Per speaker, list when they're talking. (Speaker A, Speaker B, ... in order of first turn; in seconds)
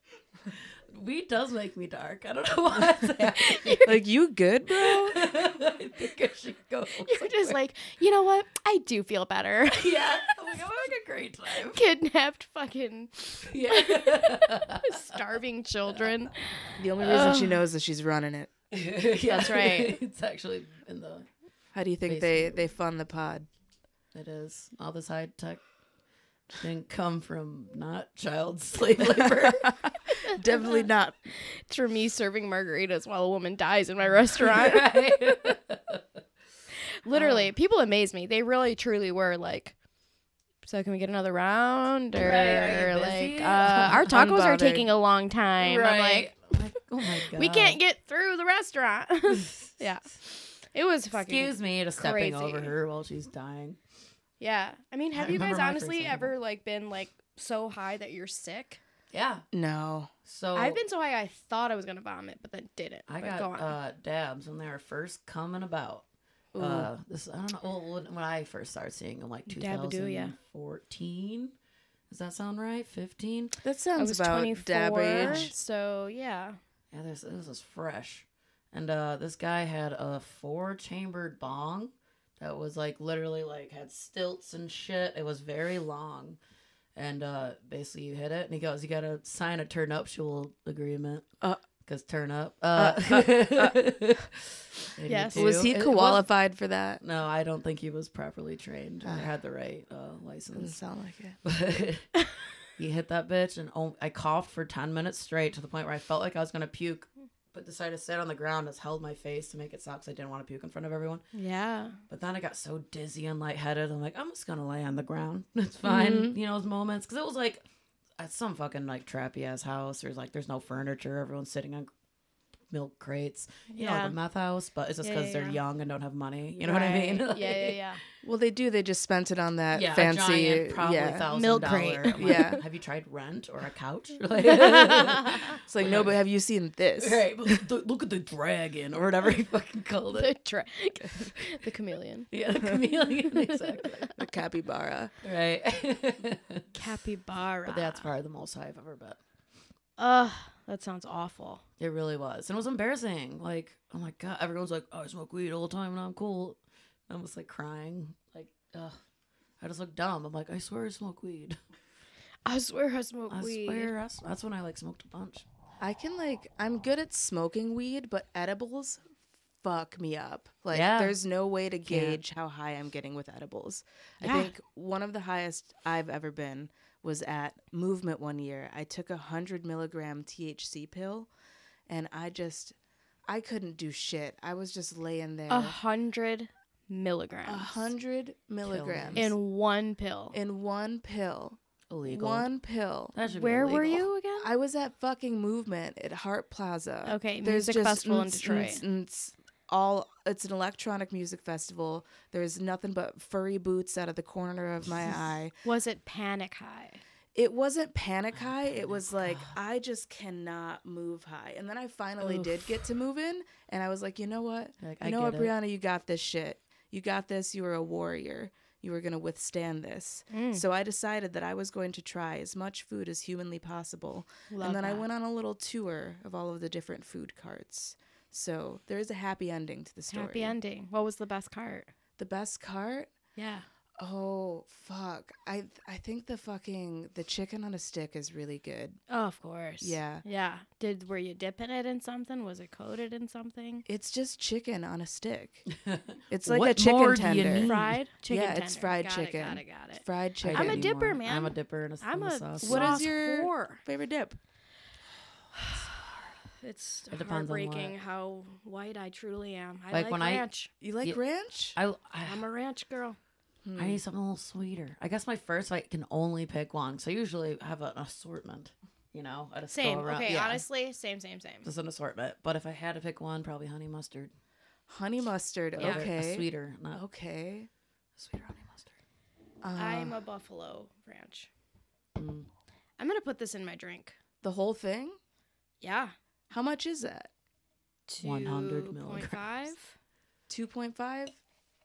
Speaker A: 0.5-4.0, 4.7-7.6, 9.7-11.8, 13.4-15.0, 18.7-21.3, 22.1-22.6, 24.1-25.6, 26.6-29.8, 34.3-36.0, 37.1-37.5, 42.2-44.1, 45.6-47.8, 49.3-49.7, 51.1-53.8, 55.1-56.3, 59.1-59.5, 60.2-60.8, 63.1-71.5, 72.1-73.6, 75.2-75.5, 76.9-86.4, 87.0-91.3, 91.8-96.3, 97.0-100.8, 101.4-102.1, 102.8-111.2, 112.1-117.6, 118.2-121.9, 122.7-127.8, 129.7-136.2, 137.0-140.3, 142.3-144.1, 145.2-146.7, 147.7-149.2, 151.8-159.0, 159.6-161.6, 163.3-165.4, 170.7-171.2, 171.8-172.2, 188.6-189.3, 191.9-192.5, 193.1-194.1, 208.3-209.6, 214.8-215.5, 245.8-248.0, 250.4-253.1, 257.1-257.9, 259.9-260.4, 261.7-262.4, 263.8-270.6, 271.6-274.3, 275.8-277.0, 278.2-279.0, 282.1-282.5, 288.2-289.7
Speaker B: 3.3-3.9, 7.0-10.7, 11.6-17.6, 19.2-20.0, 30.6-35.6, 37.0-39.8, 40.6-46.3, 47.3-52.7, 54.4-58.8, 60.5-63.7, 69.5-70.3, 74.0-76.6, 95.1-95.5, 111.3-112.0, 123.7-124.2, 125.0-125.6, 127.3-128.0, 131.3-132.6, 134.6-135.4, 140.1-142.3, 143.3-144.1, 146.7-148.1, 150.0-151.6, 162.4-163.9, 185.5-187.9, 189.1-190.4, 193.2-194.5, 197.0-198.8, 205.6-207.0, 220.3-220.6, 224.5-225.1, 230.1-231.9, 233.3-233.6, 239.1-243.8, 247.5-253.8, 255.5-256.0, 256.6-260.7, 262.2-263.2, 269.7-271.7, 279.8-281.5, 283.0-284.2, 285.8-286.1, 288.1-289.9
Speaker C: 3.8-5.3, 16.8-18.5, 21.7-23.5, 29.1-31.1, 44.0-44.9, 59.5-60.1, 66.5-66.9, 73.6-75.5, 92.7-93.8, 95.3-97.0, 99.0-99.3, 100.5-101.4, 115.8-116.3, 126.6-127.3, 128.2-131.3, 132.2-132.6, 135.6-137.7, 144.2-145.1, 165.8-169.0, 169.6-181.3, 181.9-182.7, 183.3-185.8, 187.4-189.3, 190.3-193.2, 194.4-205.5, 207.3-230.6, 232.2-233.1, 234.0-239.0, 239.8-240.2, 243.8-245.7, 246.3-250.9, 252.6-254.4, 260.8-261.8, 263.6-264.0, 274.9-277.7, 279.6-280.2, 284.4-285.2, 286.5-287.3, 290.5-291.4